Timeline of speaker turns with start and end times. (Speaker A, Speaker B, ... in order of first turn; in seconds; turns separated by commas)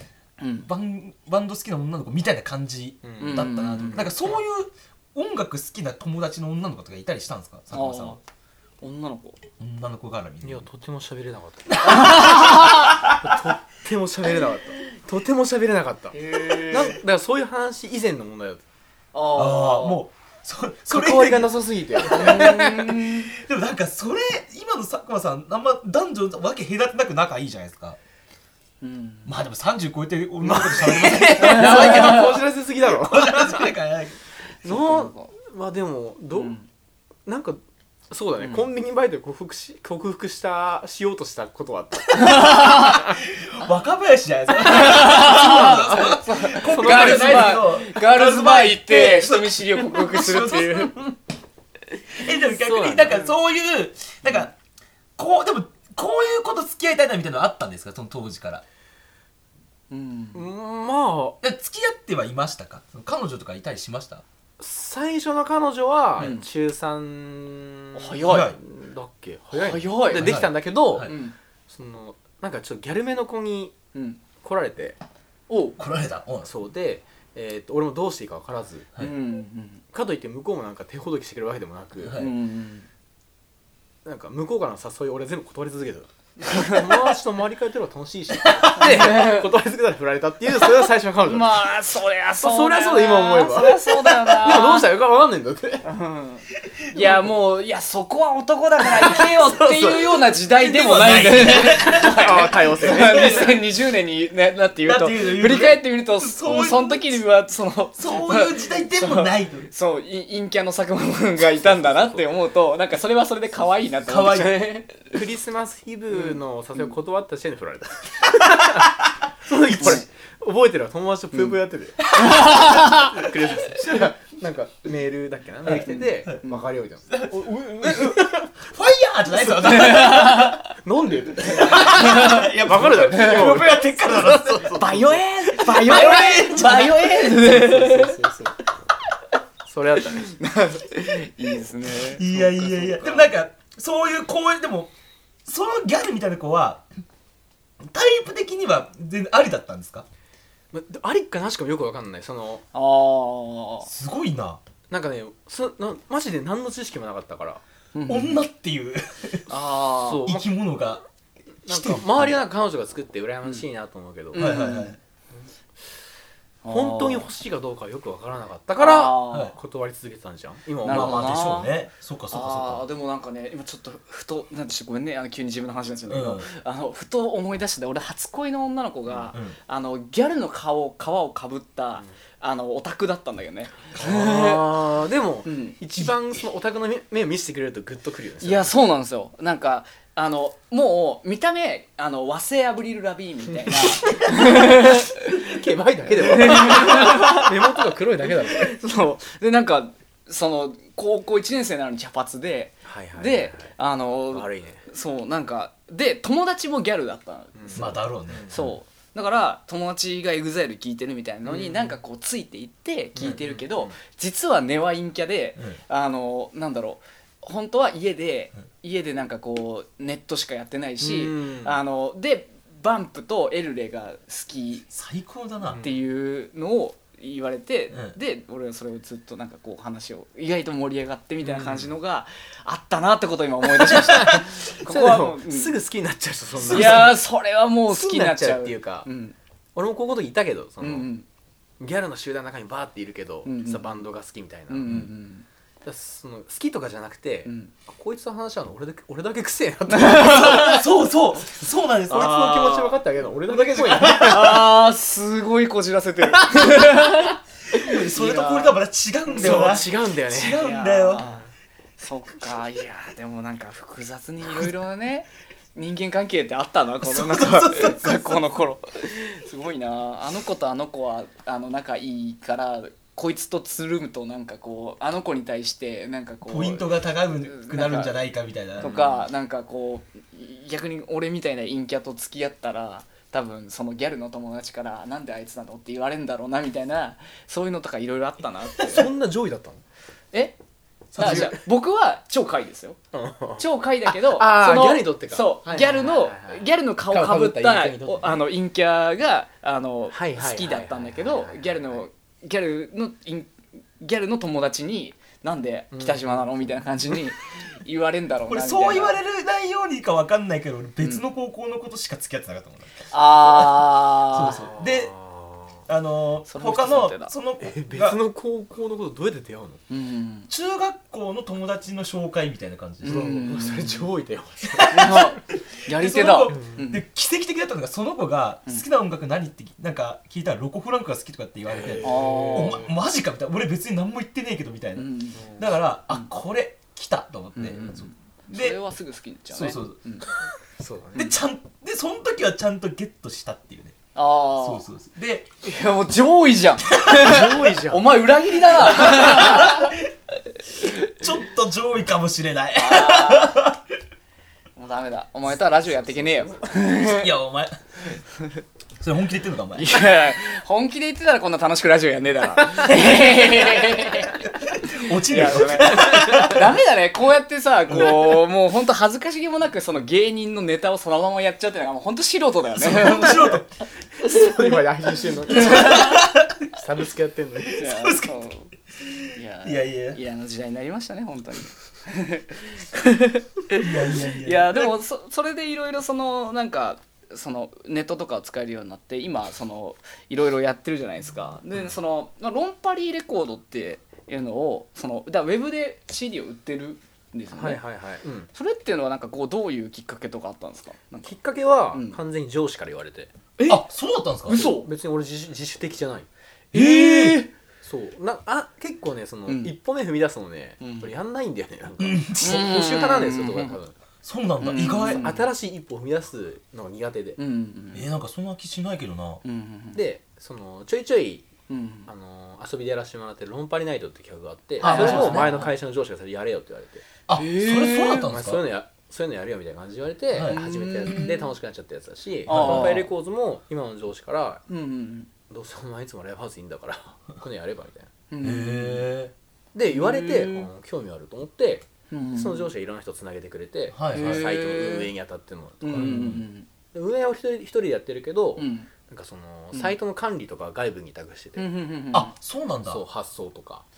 Speaker A: 0.4-0.7, Speaker B: 0.6-8.2, Speaker C: 3.0-4.2, Speaker A: 3.2-4.1, Speaker A: 7.7-8.2, Speaker A: 8.8-9.4, Speaker B: 9.6-10.7, Speaker C: 10.4-18.6, Speaker B: 11.7-13.4, Speaker A: 11.8-13.0, Speaker A: 16.1-17.0, Speaker A: 19.1-20.0, Speaker B: 19.3-28.0, Speaker C: 20.9-22.9, Speaker A: 22.1-23.3, Speaker A: 28.8-29.3, Speaker B: 29.3-34.2, Speaker C: 30.4-33.7, Speaker A: 31.2-32.3, Speaker A: 34.6-35.3, Speaker C: 34.6-36.5, Speaker A: 36.3-36.7, Speaker C: 37.3-37.6, Speaker C: 38.1-43.2, Speaker A: 38.4-38.7, Speaker A: 42.2-43.0, Speaker B: 42.5-51.0, Speaker A: 44.6-50.9, Speaker C: 45.0-47.6, Speaker B: 52.1-54.5, Speaker C: 52.5-53.3, Speaker B: 55.2-58.6, Speaker A: 59.9-60.4, Speaker C: 60.3-61.4, Speaker B: 61.4-64.2, Speaker C: 64.6-73.8, Speaker A: 66.2-66.5, Speaker A: 67.9-68.5, Speaker B: 68.2-68.6, Speaker A: 69.5-70.5, Speaker B: 70.1-71.1, Speaker A: 71.0-71.3, Speaker A: 73.9-74.2, Speaker C: 74.4-75.0, Speaker A: 75.5-75.8, Speaker B: 75.8-76.5, Speaker C: 76.4-78.9, Speaker A: 79.0-79.8, Speaker C: 79.9-82.2, Speaker B: 82.0-82.4, Speaker A: 82.1-82.9, Speaker C: 84.0-91.8, Speaker A: 86.4-86.9, Speaker B: 88.4-89.1, Speaker A: 88.7-89.5, Speaker A: 91.3-94.9, Speaker C: 92.4-95.9, Speaker A: 95.8-115.1, Speaker C: 99.0-100.2, Speaker B: 100.5-103.6, Speaker C: 101.8-103.6, Speaker B: 104.8-107.1, Speaker B: 108.0-109.7, Speaker C: 111.7-112.2, Speaker B: 114.1-114.7, Speaker C: 115.0-128.5, Speaker A: 119.8-120.0, Speaker A: 122.1-123.1, Speaker B: 122.2-122.6, Speaker B: 125.7-126.3, Speaker B: 127.1-130.6, Speaker A: 129.5-130.7, Speaker C: 129.5-138.6, Speaker B: 131.5-134.8, Speaker A: 131.7-132.5, Speaker A: 133.1-133.6, Speaker A: 134.7-138.2, Speaker B: 135.6-137.3, Speaker C: 139.7-140.4, Speaker A: 140.2-143.2, Speaker B: 142.0-144.9, Speaker B: 145.4-146.8, Speaker B: 147.8-150.1, Speaker C: 150.7-152.7, Speaker A: 152.7-153.9, Speaker B: 153.8-154.6, Speaker C: 154.9-157.6, Speaker A: 157.9-158.4, Speaker B: 158.1-159.4, Speaker A: 159.5-160.3, Speaker C: 160.0-160.5, Speaker B: 160.2-161.0, Speaker C: 161.7-164.7, Speaker B: 161.7-162.3, Speaker A: 164.3-164.9, Speaker B: 164.3-165.0, Speaker A: 166.6-167.3, Speaker C: 166.7-171.4, Speaker A: 168.8-169.5, Speaker A: 170.8-171.8, Speaker B: 170.9-172.9, Speaker A: 172.3-184.7, Speaker B: 176.1-176.5, Speaker C: 184.0-188.7, Speaker A: 185.4-185.8, Speaker A: 188.4-195.4, Speaker C: 193.7-198.8, Speaker A: 196.2-197.5, Speaker A: 198.4-224.9, Speaker C: 202.8-203.7, Speaker C: 204.3-204.8, Speaker C: 207.6-208.6, Speaker B: 207.8-208.8, Speaker C: 211.4-212.0, Speaker C: 213.2-213.9, Speaker C: 221.0-221.8, Speaker B: 224.9-225.8, Speaker C: 225.6-225.9, Speaker A: 225.8-235.8, Speaker C: 231.4-231.9, Speaker C: 233.8-237.2, Speaker B: 236.6-237.1, Speaker A: 236.7-239.3, Speaker C: 237.9-239.1, Speaker C: 239.8-241.1, Speaker A: 240.8-241.3, Speaker C: 241.8-245.0, Speaker A: 243.4-243.9, Speaker A: 244.7-245.5, Speaker C: 245.8-250.9, Speaker A: 247.5-247.7, Speaker A: 249.9-250.8, Speaker B: 250.3-252.9, Speaker C: 252.1-254.7, Speaker B: 253.5-254.6, Speaker A: 254.0-258.8, Speaker B: 257.7-261.2, Speaker C: 259.3-260.6, Speaker A: 259.4-259.8, Speaker A: 260.5-278.2, Speaker B: 267.0-268.4, Speaker B: 276.5-278.9, Speaker A: 278.8-289.1, Speaker C: 278.8-279.3, Speaker C: 288.8-289.8, Speaker B: 291.1-291.5, Speaker A: 291.2-293.0, Speaker C: 291.2-291.6, Speaker C: 293.1-298.4, Speaker A: 293.6-309.2, Speaker C: 300.1-302.0, Speaker C: 305.9-306.5, Speaker B: 308.5-315.1, Speaker A: 313.1-314.6, Speaker C: 314.4-315.8, Speaker B: 315.9-318.2, Speaker A: 316.5-317.3, Speaker C: 317.6-319.8, Speaker A: 319.9-320.5, Speaker B: 320.5-323.3, Speaker A: 323.0-324.1, Speaker C: 323.1-325.3, Speaker B: 324.7-338.8, Speaker A: 324.9-327.0, Speaker C: 326.5-326.8, Speaker C: 331.7-332.9, Speaker A: 332.0-332.9, Speaker A: 335.0-335.5, Speaker A: 337.6-340.3, Speaker B: 339.5-340.0, Speaker C: 340.8-341.4, Speaker B: 341.1-344.0, Speaker A: 344.1-344.9, Speaker B: 344.6-345.5, Speaker A: 345.6-349.9, Speaker B: 347.0-347.6, Speaker C: 347.1-348.2, Speaker B: 348.9-350.1, Speaker B: 351.1-353.8, Speaker A: 352.8-353.6, Speaker A: 354.8-357.3, Speaker C: 355.6-356.7, Speaker B: 357.0-358.2, Speaker B: 359.0-360.1, Speaker A: 359.8-373.6, Speaker B: 364.8-366.8, Speaker C: 365.8-366.6, Speaker B: 367.9-368.3, Speaker B: 372.8-373.7, Speaker C: 374.2-377.9, Speaker B: 375.6-376.5, Speaker A: 375.6-376.1, Speaker A: 377.7-378.7, Speaker B: 377.8-378.3, Speaker B: 379.0-380.2, Speaker A: 379.3-397.8, Speaker B: 383.8-384.9, Speaker C: 397.5-398.5, Speaker A: 398.5-401.3, Speaker C: 401.2-403.3, Speaker A: 401.9-402.2, Speaker A: 403.6-403.8, Speaker B: 403.7-404.7, Speaker A: 404.5-404.9, Speaker C: 404.5-406.3, Speaker B: 406.7-407.4, Speaker A: 406.7-407.5, Speaker C: 407.8-413.9, Speaker A: 409.5-409.7, Speaker A: 410.8-411.1, Speaker B: 412.0-412.7, Speaker A: 412.4-413.8, Speaker B: 414.2-415.3, Speaker A: 414.6-415.5, Speaker C: 415.1-417.4, Speaker A: 417.4-418.1, Speaker B: 417.9-419.4, Speaker A: 419.4-420.0, Speaker C: 419.9-421.5, Speaker A: 421.7-422.1, Speaker C: 422.1-427.1, Speaker B: 424.8-425.6, Speaker A: 424.8-425.7, Speaker B: 427.3-428.7, Speaker A: 427.3-428.3, Speaker C: 428.3-434.6, Speaker B: 430.3-430.6, Speaker A: 430.5-431.5, Speaker A: 432.5-433.1, Speaker B: 432.5-433.1, Speaker A: 434.7-435.3, Speaker C: 435.5-438.1, Speaker A: 438.3-439.1, Speaker B: 438.4-439.3, Speaker C: 439.7-446.3, Speaker A: 439.9-440.7, Speaker A: 442.1-442.7, Speaker B: 443.9-444.5, Speaker A: 444.1-445.1, Speaker A: 445.8-446.7, Speaker B: 445.9-446.5, Speaker C: 446.9-451.7, Speaker A: 448.6-448.9, Speaker A: 451.6-452.3, Speaker B: 452.1-453.0, Speaker C: 452.9-453.9